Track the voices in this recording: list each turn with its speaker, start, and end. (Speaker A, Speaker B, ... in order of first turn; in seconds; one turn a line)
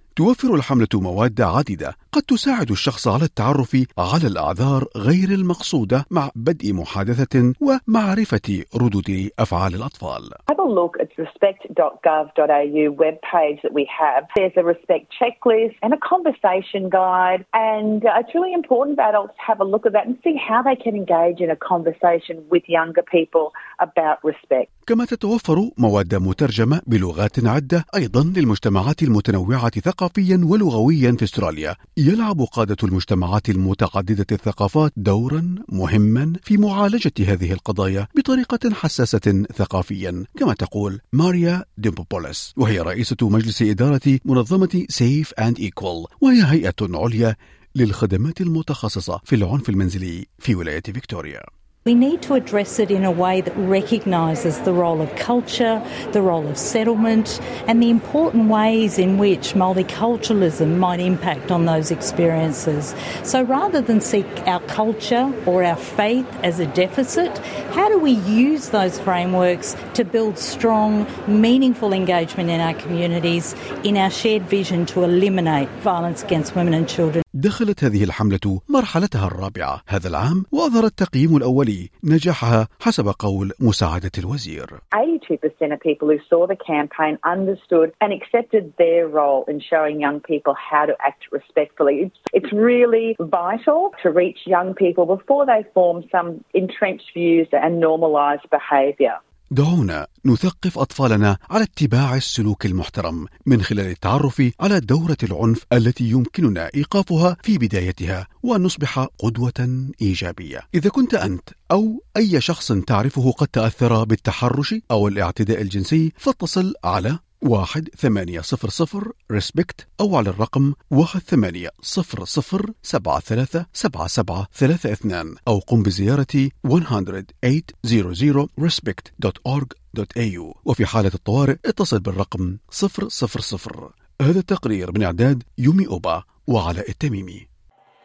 Speaker A: 0.2-10.4
Speaker B: 10.5-24.7
Speaker A: 24.9-51.5
Speaker C: 51.9-77.2
Speaker A: 77.4-84.8
Speaker B: 84.9-99.2
Speaker A: 99.6-137.4